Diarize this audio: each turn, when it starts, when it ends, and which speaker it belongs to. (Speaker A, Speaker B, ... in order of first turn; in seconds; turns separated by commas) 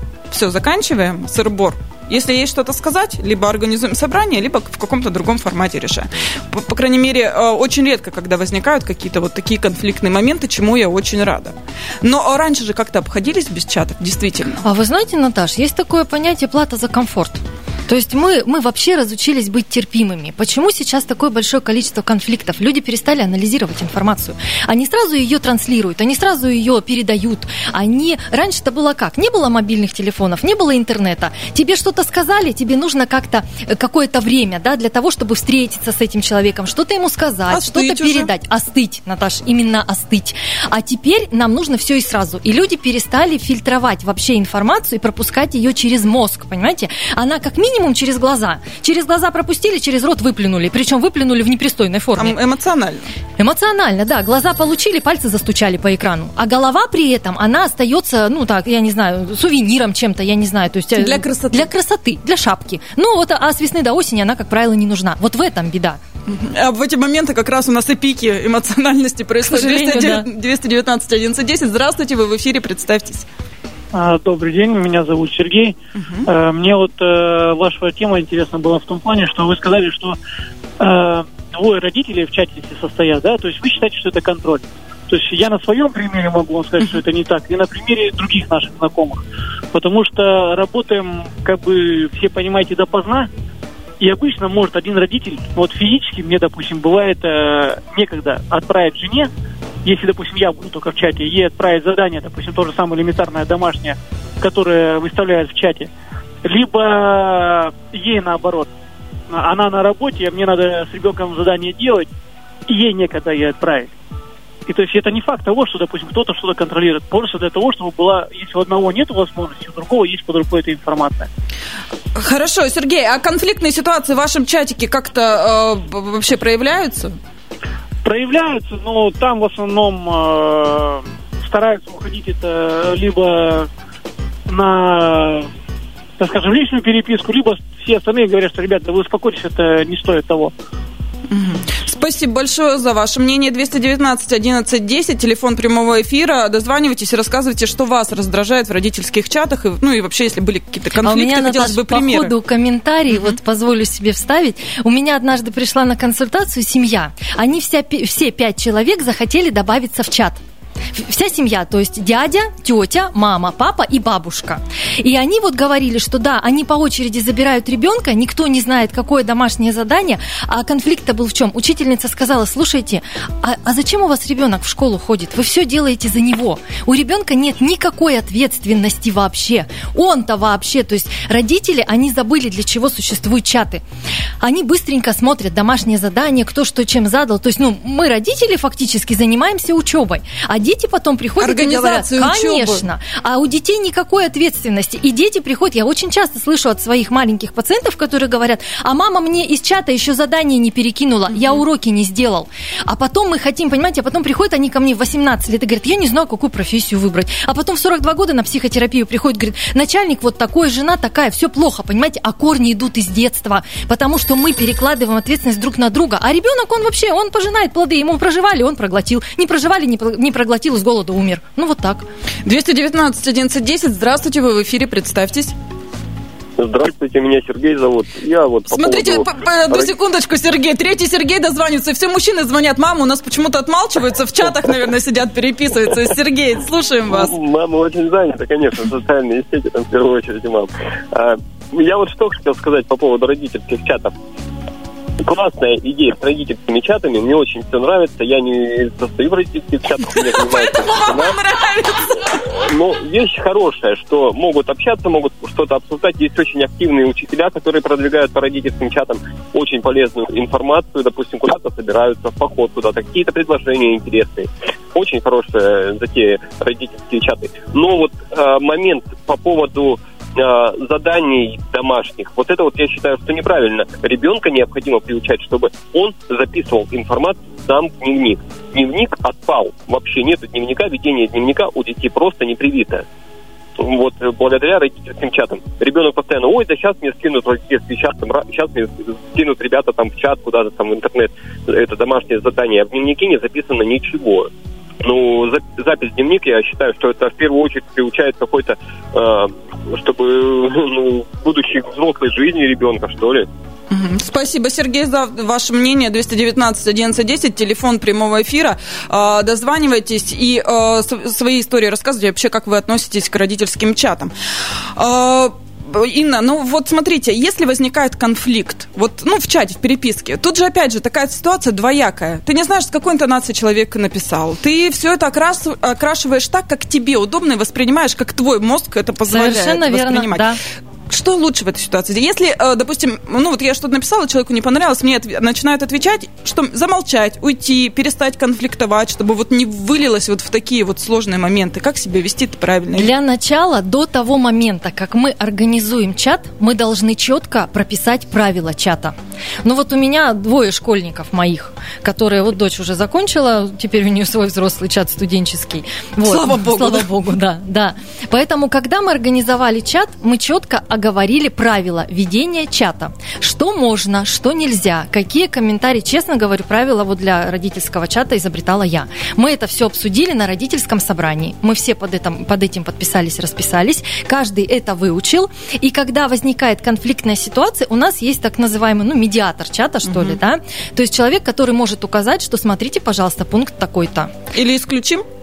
Speaker A: 0.3-14.6, Speaker B: 14.6-52.4, Speaker A: 37.5-38.3, Speaker A: 52.2-53.0, Speaker B: 53.4-66.0, Speaker A: 60.9-61.7, Speaker A: 66.3-73.2, Speaker B: 69.4-70.2, Speaker C: 73.9-80.2, Speaker A: 76.0-76.2, Speaker C: 80.8-93.3, Speaker C: 94.0-99.3, Speaker C: 99.8-105.9, Speaker C: 106.4-108.7, Speaker C: 109.3-112.1, Speaker C: 112.7-113.9, Speaker C: 114.7-121.3, Speaker A: 122.2-127.2, Speaker C: 128.0-133.7, Speaker C: 134.5-135.5, Speaker C: 136.2-140.5, Speaker A: 141.3-152.3, Speaker B: 151.0-160.4, Speaker B: 160.9-183.8, Speaker B: 184.4-222.1, Speaker A: 191.4-192.8, Speaker A: 201.3-201.6, Speaker A: 222.4-225.5, Speaker D: 226.6-229.9, Speaker A: 228.7-237.3, Speaker D: 237.1-244.2, Speaker D: 245.2-251.4, Speaker A: 250.5-252.4, Speaker D: 252.1-283.0, Speaker D: 283.8-294.5, Speaker D: 295.0-303.5, Speaker A: 303.9-314.3, Speaker A: 314.9-330.5, Speaker B: 329.3-330.6, Speaker A: 331.1-343.1, Speaker B: 342.9-384.3, Speaker A: 356.2-357.1, Speaker A: 380.1-380.4, Speaker A: 384.5-385.2